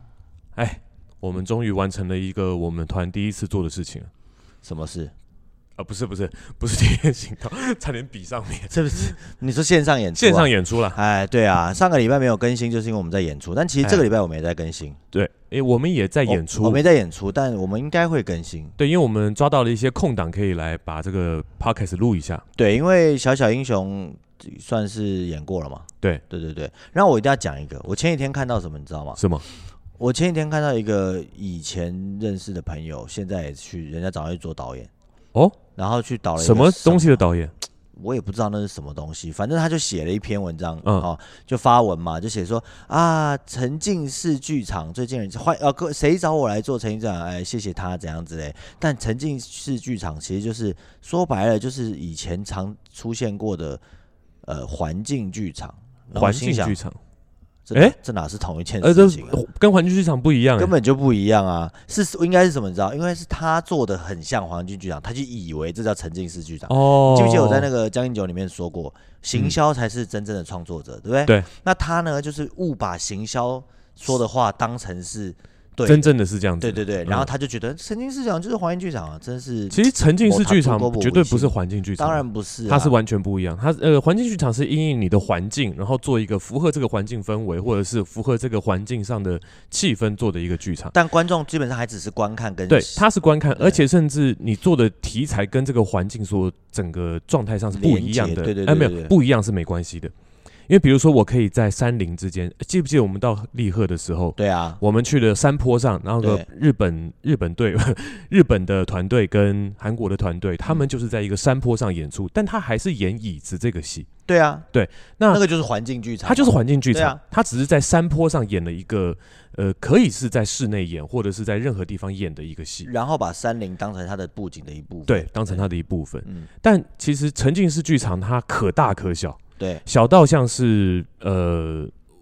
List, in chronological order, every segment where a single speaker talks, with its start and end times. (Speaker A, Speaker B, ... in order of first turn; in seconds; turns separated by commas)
Speaker A: 0.6-4.1, Speaker B: 4.6-5.1, Speaker A: 5.8-9.2, Speaker B: 8.7-15.0, Speaker A: 10.2-11.0, Speaker A: 15.1-16.8, Speaker B: 16.2-18.8, Speaker A: 18.8-22.4, Speaker B: 22.6-29.2, Speaker A: 29.2-29.4, Speaker B: 30.0-34.9, Speaker B: 35.8-37.2, Speaker A: 36.4-37.5, Speaker B: 37.9-53.8, Speaker B: 54.4-56.8, Speaker A: 56.1-57.0, Speaker B: 57.6-59.4, Speaker A: 58.8-60.7, Speaker B: 60.6-82.9, Speaker A: 66.7-67.7, Speaker A: 75.8-77.3, Speaker A: 79.7-90.9, Speaker B: 90.9-93.0, Speaker A: 92.7-100.1, Speaker B: 97.7-99.1, Speaker A: 100.7-114.1, Speaker B: 104.4-104.8, Speaker B: 114.3-114.7, Speaker A: 114.7-115.4, Speaker B: 115.3-117.2, Speaker A: 116.2-122.9, Speaker B: 122.8-125.6, Speaker A: 125.1-131.9, Speaker B: 129.6-129.8